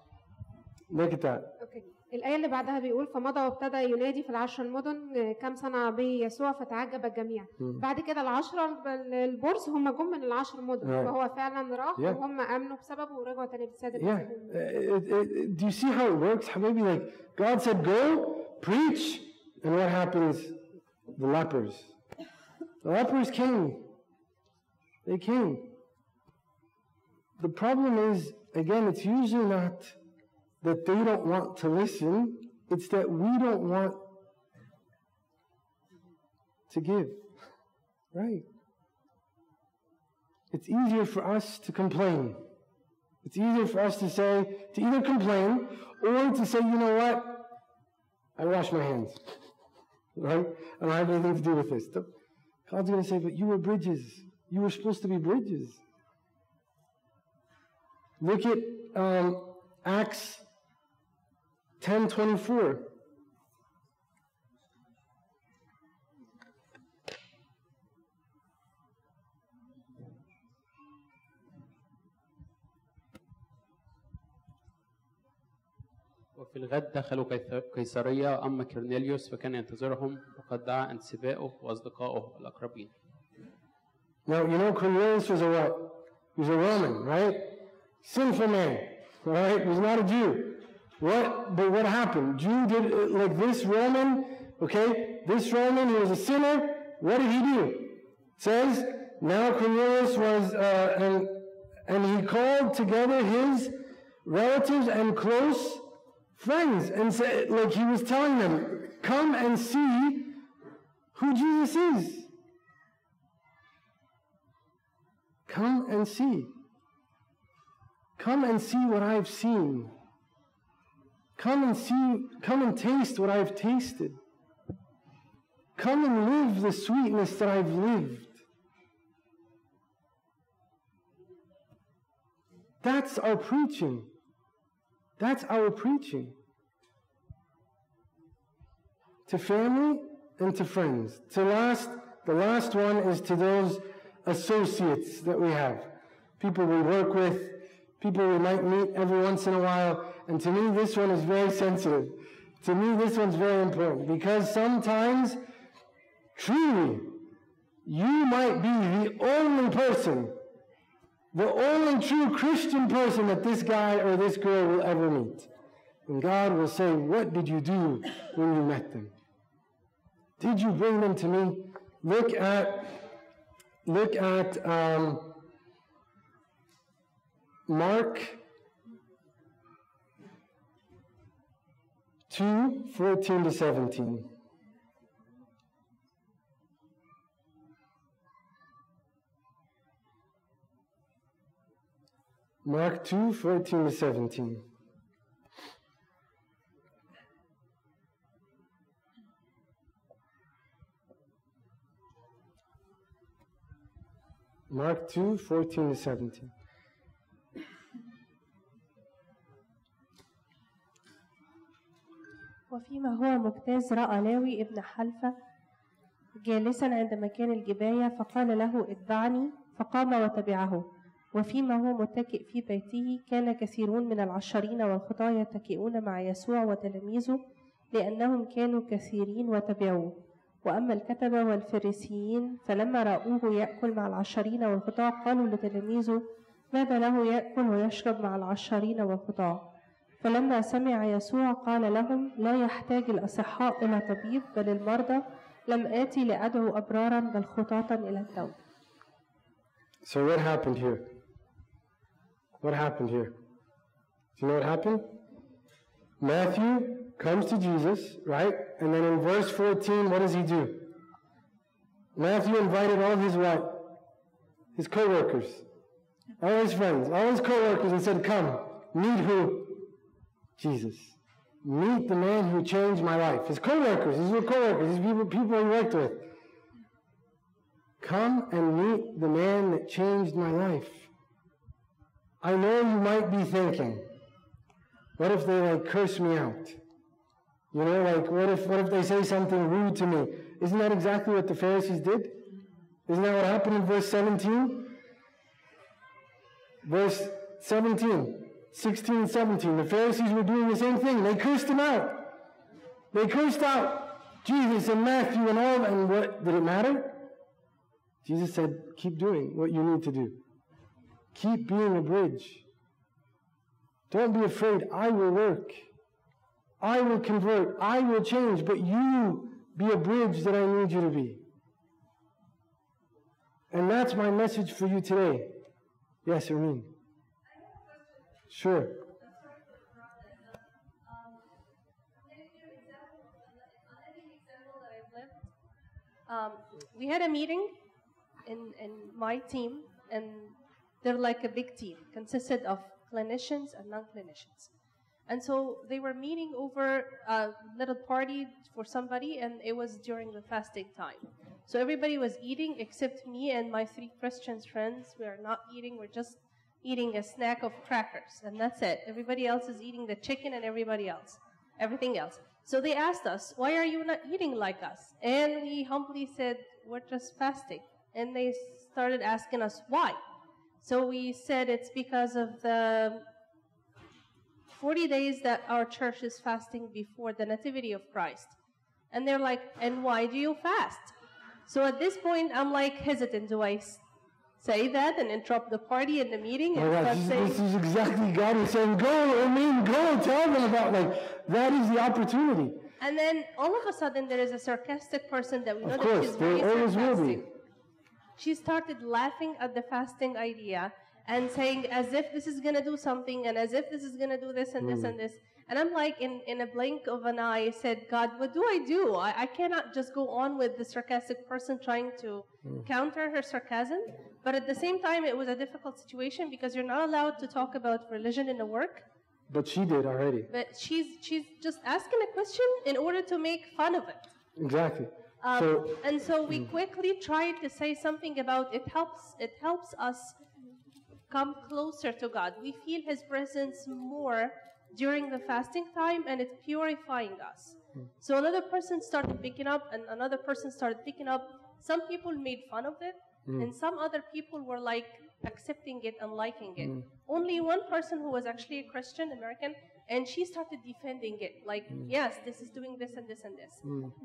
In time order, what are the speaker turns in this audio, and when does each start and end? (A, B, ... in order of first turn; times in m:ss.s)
0:00.9-0:01.5 A
0:01.6-0:14.6 B
0:07.6-0:07.8 A
0:10.8-0:11.1 A
0:14.0-0:20.6 A
0:21.1-0:21.9 A
0:22.8-0:23.9 A
0:25.0-0:25.8 A
0:27.4-0:30.0 A
0:30.6-0:34.1 A
0:36.7-0:37.3 A
0:38.1-0:38.4 A
0:40.5-0:42.5 A
0:43.2-0:47.5 A
0:48.4-0:49.4 A
0:50.1-0:52.1 A
0:52.7-0:55.8 A
0:58.2-1:00.4 A
1:01.8-1:02.9 A
1:16.3-1:22.9 C
1:24.2-1:50.4 A
1:51.1-1:52.3 A
1:55.5-1:56.5 A
1:58.2-1:59.9 A
2:01.4-2:04.2 A
2:05.8-2:08.4 A
2:12.8-2:14.1 A
2:15.2-2:16.4 A
2:19.2-2:35.4 A
2:36.3-2:37.3 A
2:37.8-2:40.4 A
2:41.3-2:45.5 A
2:46.1-2:49.1 A
2:50.4-2:53.1 A
2:53.8-2:55.4 A
2:57.7-2:58.4 A
3:02.3-3:04.3 A
3:12.6-3:14.6 A
3:24.7-3:26.5 A
3:32.7-3:35.3 D
3:36.4-3:47.4 D
3:47.9-3:50.1 D
3:50.6-3:56.2 D
3:56.7-3:59.6 D
4:00.2-4:08.6 D
4:10.0-4:11.1 A
4:12.6-4:13.4 A
4:14.4-4:15.1 A
4:16.2-4:21.0 A
4:22.1-4:24.0 A
4:24.7-4:25.6 A
4:26.4-4:29.9 A
4:30.6-4:36.3 A
4:38.0-4:41.1 A
4:42.4-4:44.1 A
4:45.2-4:46.8 A
4:47.7-4:52.4 A
4:53.1-4:55.0 A
4:56.8-5:02.3 A
5:03.1-5:07.3 A
5:08.2-5:10.4 A
5:11.3-5:12.6 A
5:14.1-5:15.9 A
5:16.8-5:21.4 A
5:23.7-5:25.6 A
5:26.2-5:26.9 A
5:28.5-5:29.1 A
5:34.1-5:35.4 D
5:36.3-5:37.8 D
5:38.4-5:44.7 D
5:45.3-6:10.2 D
6:10.8-6:13.2 D
6:14.7-6:18.5 D
6:19.1-6:21.1 D
6:21.7-6:24.0 D
6:24.6-6:27.6 D
6:26.7-6:32.9 A
6:33.0-6:37.5 D
6:35.8-6:37.4 A
6:38.4-6:59.0 D
6:44.8-6:45.1 A
6:59.5-7:00.5 A
7:00.5-7:04.2 D
7:04.6-7:06.0 A
7:05.4-7:10.4 D
7:11.3-7:33.8 D
7:26.8-7:27.0 A
7:33.8-7:34.1 A